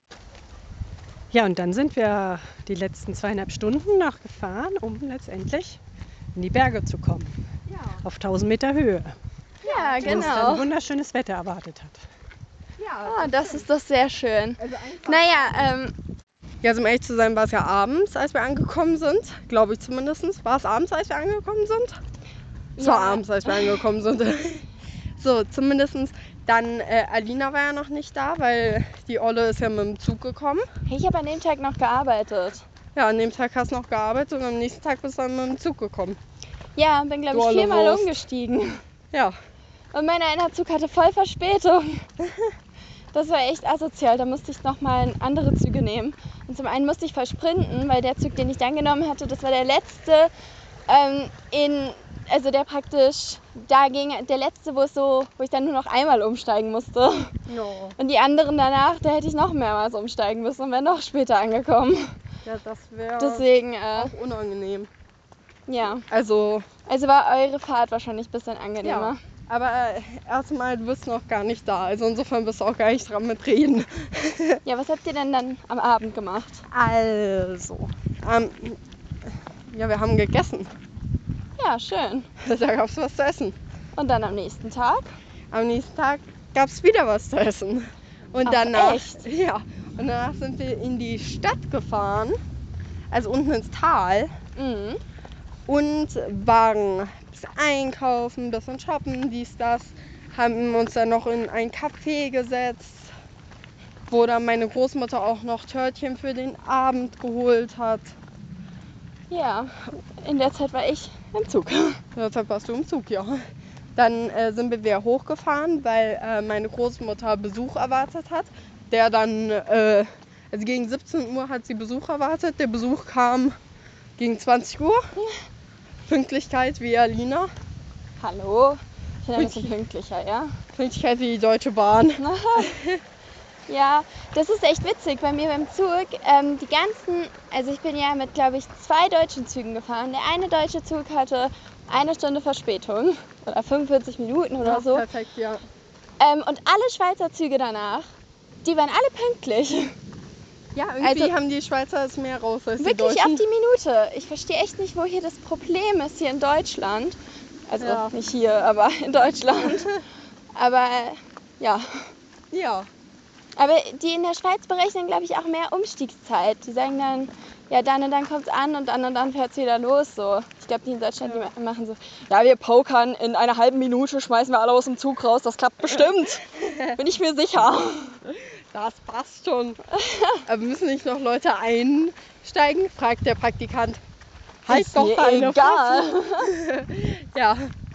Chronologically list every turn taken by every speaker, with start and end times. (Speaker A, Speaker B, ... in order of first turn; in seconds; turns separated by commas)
Speaker A: 1.3-5.8, Speaker A: 6.3-7.4, Speaker B: 7.7-8.0, Speaker A: 8.0-9.2, Speaker B: 9.6-10.5, Speaker C: 9.6-10.7, Speaker A: 10.1-12.0, Speaker B: 12.8-13.7, Speaker C: 13.1-15.9, Speaker B: 14.6-15.7, Speaker B: 16.6-22.0, Speaker C: 22.8-23.8, Speaker B: 22.8-24.6, Speaker B: 25.2-30.7, Speaker C: 30.9-32.6, Speaker B: 33.0-36.2, Speaker C: 36.8-38.8, Speaker B: 37.3-38.2, Speaker C: 39.9-42.0, Speaker C: 43.1-50.3, Speaker C: 50.9-57.4, Speaker B: 57.5-58.0, Speaker C: 58.0-62.1, Speaker B: 62.4-64.9, Speaker C: 63.2-64.1, Speaker C: 65.7-66.1, Speaker B: 66.1-66.7, Speaker C: 66.9-69.2, Speaker B: 68.8-74.6, Speaker C: 74.7-76.6, Speaker B: 76.7-78.8, Speaker B: 79.7-80.7, Speaker C: 81.6-82.3, Speaker B: 82.4-83.6, Speaker C: 84.0-85.1, Speaker B: 85.5-92.4, Speaker C: 88.5-89.2, Speaker B: 93.1-94.3, Speaker C: 94.6-95.0, Speaker B: 95.7-103.1, Speaker B: 104.1-108.2, Speaker C: 109.3-112.0, Speaker B: 112.2-113.4, Speaker B: 114.0-123.6, Speaker B: 124.2-125.0, Speaker B: 126.1-127.5, Speaker C: 128.2-130.6, Speaker B: 129.4-129.7, Speaker B: 130.8-133.0, Speaker C: 132.2-132.8, Speaker C: 133.7-145.1, Speaker B: 144.6-145.6, Speaker C: 146.2-148.1, Speaker C: 148.6-149.9, Speaker B: 150.8-153.4, Speaker C: 151.0-151.3, Speaker C: 152.8-160.0, Speaker B: 157.8-158.1, Speaker C: 160.6-162.1, Speaker B: 162.5-162.9, Speaker C: 163.6-178.2, Speaker B: 171.2-171.5, Speaker B: 176.6-177.0, Speaker B: 178.3-179.8, Speaker C: 179.9-180.4, Speaker B: 180.5-184.0, Speaker B: 184.7-187.7, Speaker C: 184.7-186.5